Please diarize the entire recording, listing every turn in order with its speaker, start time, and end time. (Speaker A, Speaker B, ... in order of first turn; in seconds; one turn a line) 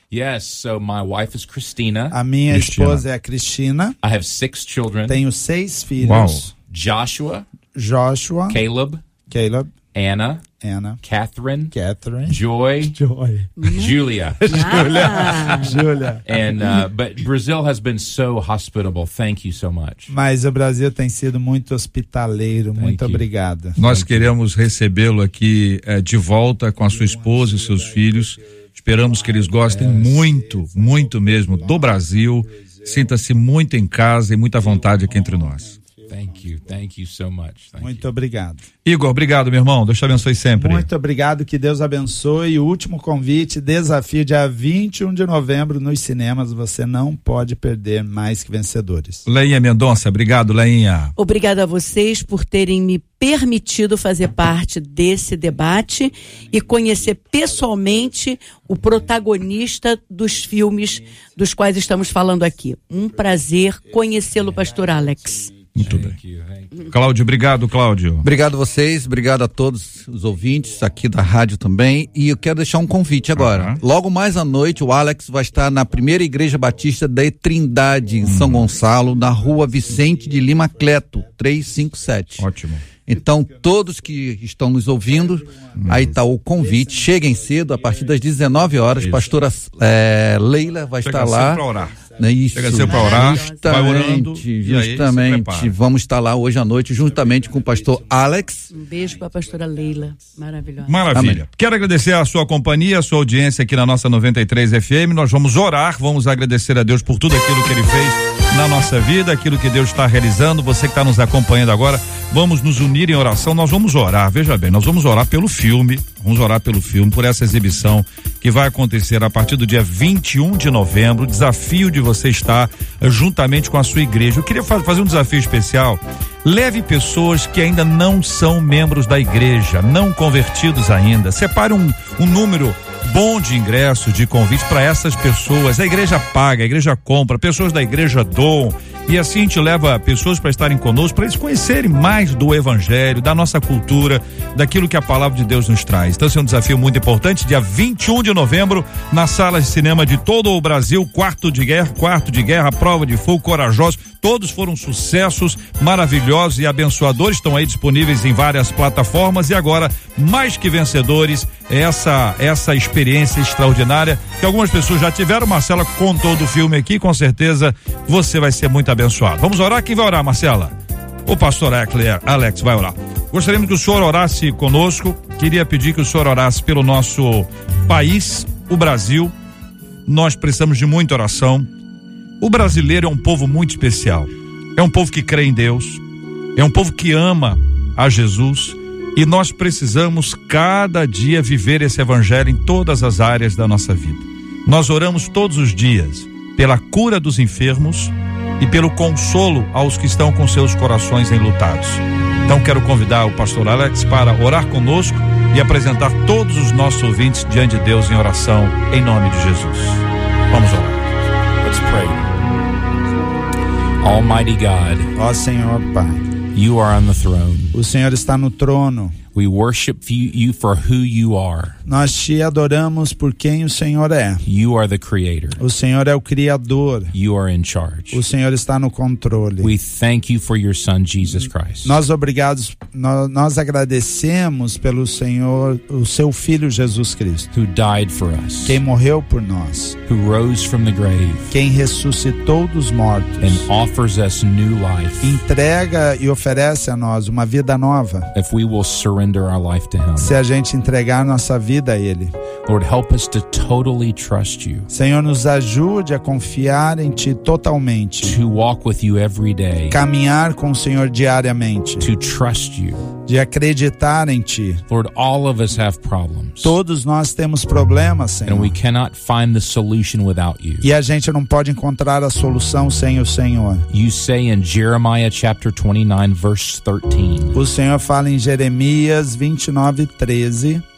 Speaker A: 0.1-2.2
Speaker B: 2.1-4.0
Speaker C: 2.5-3.0
Speaker A: 4.0-5.2
Speaker B: 5.1-6.5
Speaker C: 6.0-6.5
Speaker A: 6.7-7.5
Speaker B: 7.7-8.6
Speaker A: 8.5-9.0
Speaker B: 9.3-9.7
Speaker A: 9.9-10.4
Speaker B: 10.6-11.0
Speaker A: 11.0-11.7
Speaker B: 11.7-13.6
Speaker A: 12.2-12.9
Speaker D: 13.6-15.8
Speaker A: 13.7-14.5
Speaker B: 14.4-16.2
Speaker A: 16.2-20.1
Speaker B: 20.1-23.8
Speaker A: 22.8-23.2
Speaker C: 23.8-35.7
Speaker A: 23.8-24.3
Speaker B: 26.9-33.1
Speaker A: 29.7-30.1
Speaker B: 34.6-36.5
Speaker A: 36.1-38.0
Speaker B: 37.8-38.6
Speaker C: 38.8-40.9
Speaker B: 40.5-49.2
Speaker C: 49.3-51.1
Speaker D: 51.2-65.5
Speaker C: 65.8-66.2
Speaker A: 65.8-66.8
Speaker C: 66.9-68.2
Speaker E: 68.2-98.7
Speaker C: 73.3-73.8
Speaker C: 78.2-78.7
Speaker C: 82.4-82.9
Speaker C: 85.8-86.2
Speaker C: 89.0-89.3
Speaker C: 91.0-95.7
Speaker D: 92.7-93.7
Speaker B: 97.2-98.5
Speaker D: 98.7-101.0
Speaker C: 100.8-170.7
Speaker E: 101.1-101.4
Speaker C: 171.2-179.3
Speaker C: 180.1-181.7
Speaker C: 182.4-186.0
Speaker C: 186.5-211.1
Speaker A: 211.6-212.3
Speaker A: 214.0-215.1
Speaker B: 215.2-216.2
Speaker A: 216.5-217.7
Speaker B: 217.7-219.2
Speaker A: 219.3-221.8
Speaker B: 221.8-224.4
Speaker A: 224.4-225.6
Speaker B: 225.6-227.1
Speaker A: 227.1-228.2
Speaker B: 228.1-229.7
Speaker A: 229.6-232.0
Speaker B: 231.4-237.5
Speaker A: 237.5-238.8
Speaker B: 238.6-240.0
Speaker A: 240.1-241.5
Speaker B: 241.5-243.7
Speaker A: 243.4-245.4
Speaker B: 245.2-248.3
Speaker A: 248.3-250.3
Speaker B: 250.2-252.3
Speaker A: 252.7-254.9
Speaker B: 254.9-258.4
Speaker A: 258.2-260.0
Speaker B: 259.9-262.1
Speaker A: 262.0-263.0
Speaker B: 263.2-264.8
Speaker A: 264.9-266.8
Speaker B: 266.6-268.7
Speaker A: 268.4-270.9
Speaker B: 270.8-273.9
Speaker A: 273.9-277.6
Speaker B: 277.5-280.8